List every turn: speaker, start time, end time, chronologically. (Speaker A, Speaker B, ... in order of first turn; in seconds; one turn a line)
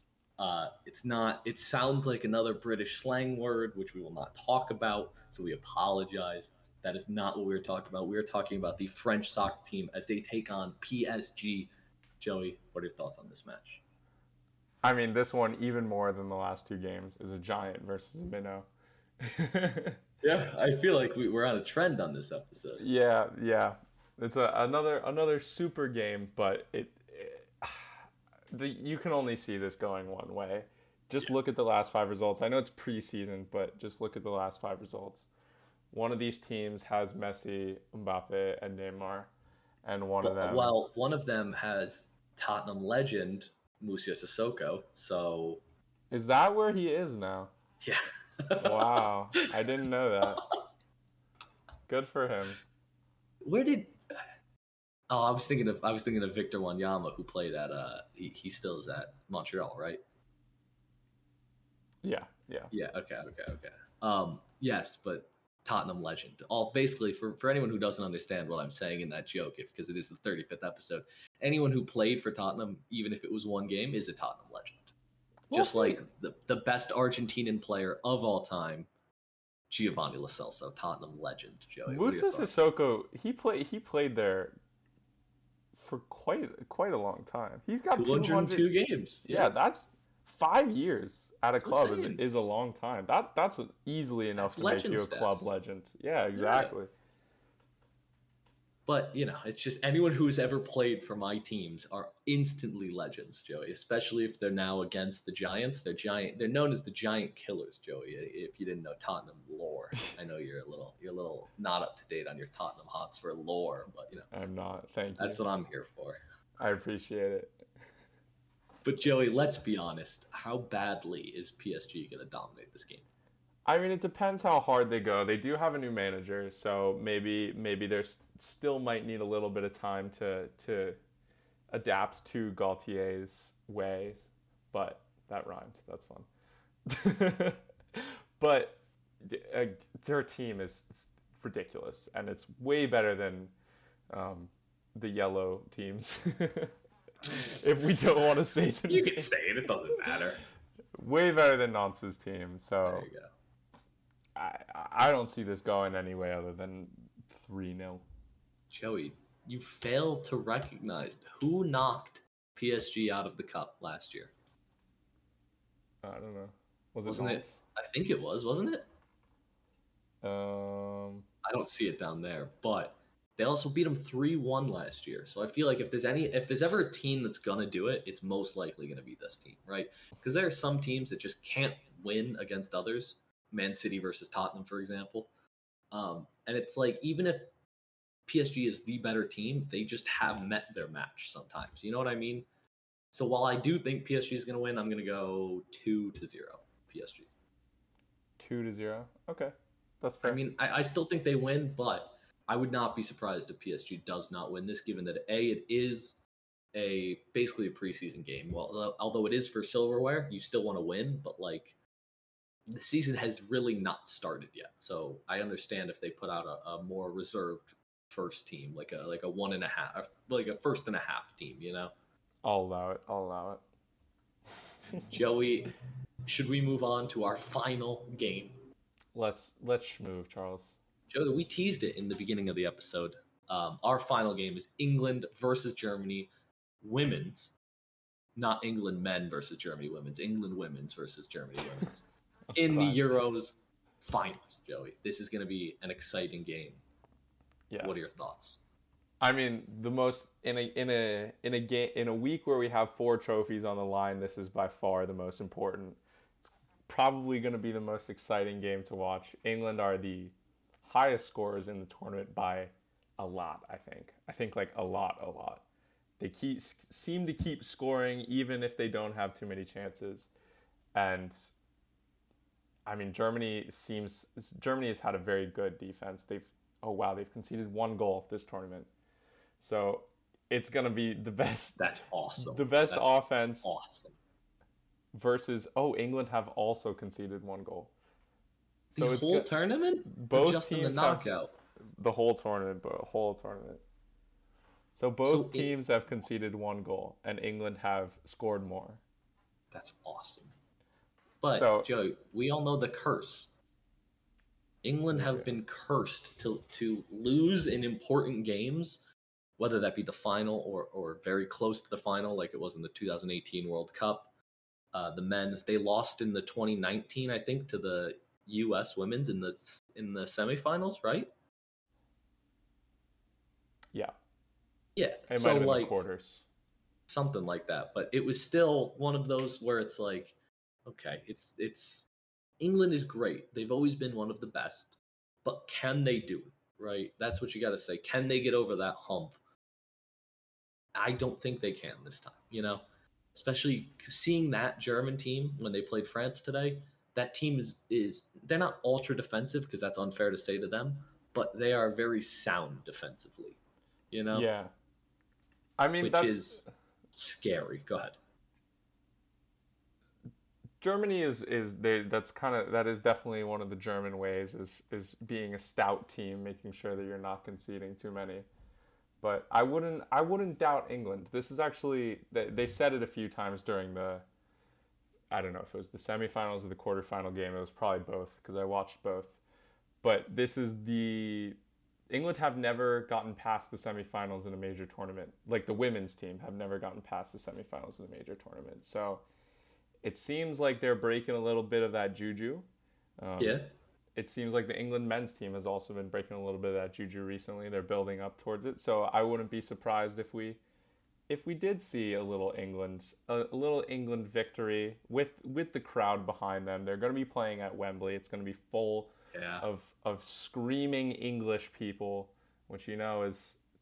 Speaker A: 0.4-13.8
Speaker B: 14.8-18.7
Speaker B: 19.2-20.0
Speaker A: 20.2-22.9
Speaker B: 22.8-35.3
Speaker B: 35.9-39.3
Speaker B: 39.8-40.7
Speaker A: 40.2-45.6
Speaker B: 46.1-47.5
Speaker A: 47.8-49.5
Speaker B: 48.6-50.5
Speaker B: 51.9-52.6
Speaker A: 53.4-54.2
Speaker A: 55.1-60.0
Speaker B: 62.0-62.7
Speaker A: 62.7-74.9
Speaker B: 75.5-76.0
Speaker A: 75.5-78.9
Speaker A: 79.7-82.7
Speaker B: 81.9-84.6
Speaker B: 85.7-88.7
Speaker A: 87.9-89.5
Speaker B: 89.2-96.9
Speaker A: 91.6-92.2
Speaker A: 94.4-95.5
Speaker A: 96.4-96.7
Speaker A: 98.9-114.3
Speaker B: 114.3-115.4
Speaker A: 115.2-116.2
Speaker B: 116.6-117.7
Speaker A: 118.8-123.1
Speaker B: 123.6-131.0
Speaker B: 131.7-136.3
Speaker B: 136.9-143.5
Speaker B: 144.1-146.8
Speaker B: 147.3-149.3
Speaker A: 148.9-150.4
Speaker B: 150.9-153.1
Speaker A: 152.8-153.3
Speaker B: 154.3-158.0
Speaker A: 158.7-164.3
Speaker B: 166.0-167.6
Speaker A: 167.1-168.9
Speaker B: 170.2-171.3
Speaker A: 171.4-185.3
Speaker A: 185.9-187.5
Speaker A: 188.3-192.4
Speaker A: 193.1-197.3
Speaker B: 198.4-200.4
Speaker A: 200.2-206.2
Speaker A: 206.7-211.8
Speaker A: 212.7-221.9
Speaker B: 222.4-223.6
Speaker A: 225.1-225.7
Speaker A: 226.3-228.6
Speaker B: 229.1-230.8
Speaker A: 231.1-236.3
Speaker A: 236.8-237.5
Speaker A: 238.4-246.8
Speaker B: 242.5-243.1
Speaker B: 247.7-248.1
Speaker A: 247.8-248.6
Speaker B: 249.2-265.6
Speaker B: 266.2-270.3
Speaker B: 270.9-271.5
Speaker B: 272.9-278.9
Speaker B: 279.6-281.9
Speaker A: 281.8-284.2
Speaker B: 282.4-283.7
Speaker B: 285.1-287.9
Speaker A: 288.9-291.5
Speaker B: 288.9-289.5
Speaker B: 290.1-291.2
Speaker B: 291.8-293.8
Speaker B: 294.9-299.0
Speaker A: 295.3-295.8
Speaker A: 299.7-300.5
Speaker A: 301.4-303.5
Speaker B: 301.5-301.9
Speaker A: 304.8-309.0
Speaker B: 305.1-305.5
Speaker A: 309.6-314.3
Speaker A: 314.9-321.3
Speaker A: 324.9-325.9
Speaker B: 325.3-326.4
Speaker A: 327.1-332.1
Speaker A: 332.6-339.4
Speaker A: 340.9-342.8
Speaker A: 343.4-353.6
Speaker A: 354.1-354.5
Speaker B: 354.3-354.7
Speaker B: 355.8-356.6
Speaker A: 356.0-356.6
Speaker A: 357.2-358.2
Speaker B: 360.8-368.4
Speaker B: 369.2-374.3
Speaker B: 375.3-379.4
Speaker B: 380.0-381.6
Speaker B: 382.1-389.2
Speaker B: 390.0-392.7
Speaker B: 393.2-393.6
Speaker A: 393.4-393.7
Speaker B: 394.2-400.6
Speaker B: 401.3-413.6
Speaker A: 409.3-409.7